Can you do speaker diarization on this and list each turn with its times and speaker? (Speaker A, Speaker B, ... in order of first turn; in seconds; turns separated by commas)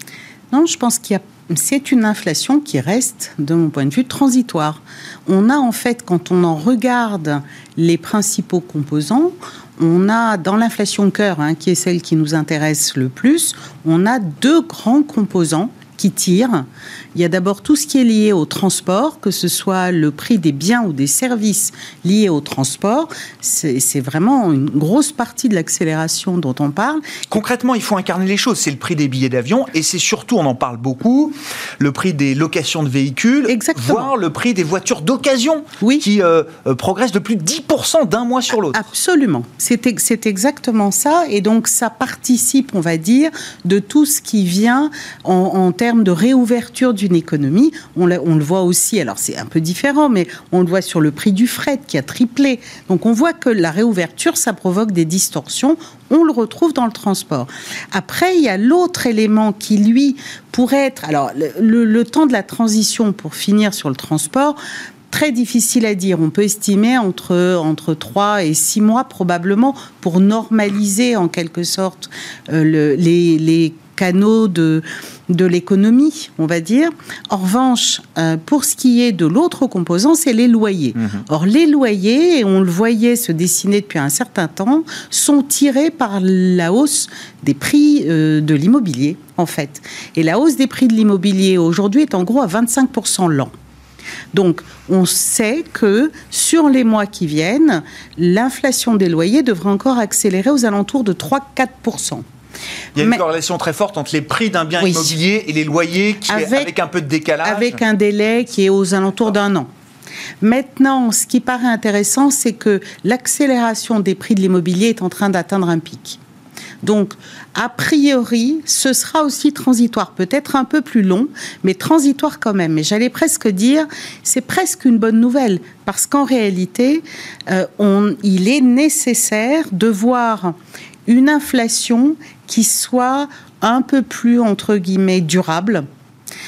Speaker A: 0.5-27.2, Speaker B: 27.3-38.8, Speaker A: 33.5-34.1, Speaker A: 38.7-64.6, Speaker A: 65.1-93.5, Speaker B: 81.0-81.2, Speaker A: 94.3-102.2, Speaker B: 103.0-107.8, Speaker A: 104.8-105.1, Speaker A: 106.3-106.7, Speaker A: 107.4-109.7, Speaker A: 110.4-116.2, Speaker A: 116.8-130.6, Speaker A: 131.1-135.9